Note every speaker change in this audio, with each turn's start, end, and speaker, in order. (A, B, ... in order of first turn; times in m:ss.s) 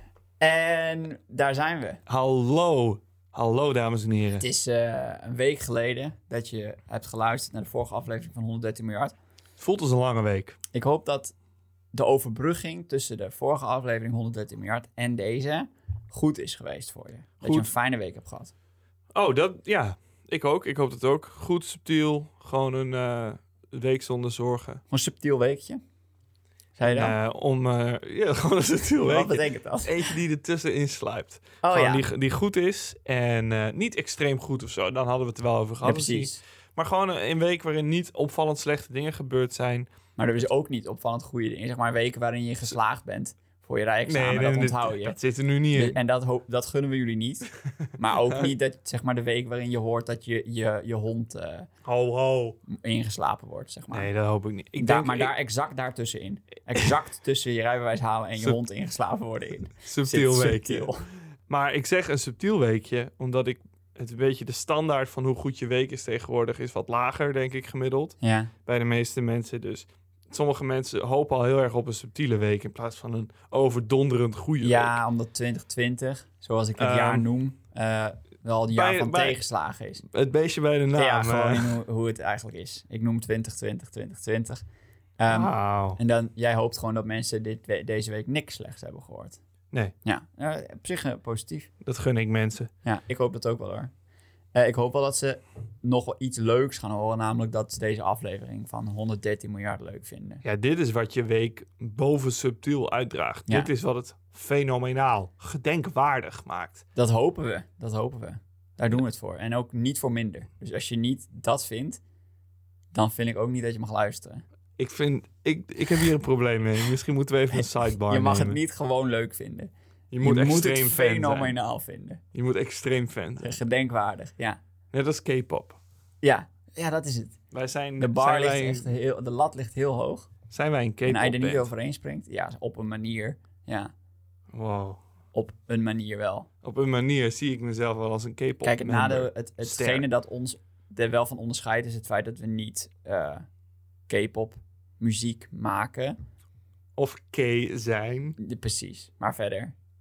0:00.4-0:02.0 A
0:02.1-0:04.4 B
0:04.4-0:09.1 A
0:09.6-0:10.6 B
0:10.7-0:11.3 A
0:11.9-0:18.5 A
0:17.4-0:17.7 B
0:19.1-0:24.8 B
0:24.9-0:25.8 A
0:26.8-0:27.2 A
0:26.9-0:39.9 B
0:29.0-0:30.2 A
0:31.6-0:32.0 A
0:35.8-0:36.4 A
0:40.2-0:45.2 A
0:44.1-0:46.0 B
0:45.7-0:51.7 A
0:48.1-0:48.5 B
0:51.8-0:52.6 B
0:52.7-0:54.1 A
0:53.9-0:55.3 B
0:54.8-1:01.0 A
0:59.7-1:00.9 B
1:01.5-1:15.0 B
1:08.2-1:08.5 A
1:14.6-1:20.0 A
1:16.8-1:17.2 B
1:18.7-1:19.4 B
1:20.1-1:21.8 B
1:20.9-1:24.6 A
1:25.2-1:29.4 A
1:25.3-1:26.0 B
1:30.0-1:31.7 A
1:31.8-1:32.7 B
1:32.8-1:33.9 A
1:34.6-1:40.4 A
1:40.4-1:46.8 B
1:47.0-1:52.0 A
1:52.9-1:54.4 A
1:54.8-1:58.6 B
1:57.6-1:59.7 A
2:00.1-2:01.6 B
2:00.2-2:02.2 A
2:02.3-2:03.6 B
2:03.4-2:04.6 A
2:04.9-2:05.8 B
2:06.2-2:07.4 A
2:07.5-2:08.9 B
2:08.0-2:10.3 A
2:10.5-2:11.7 B
2:11.1-2:13.9 A
2:14.5-2:15.0 B
2:15.3-2:16.5 A
2:16.6-2:20.1 B
2:18.6-2:23.5 A
2:24.1-2:26.2 A
2:27.0-2:28.4 B
2:28.4-2:29.8 A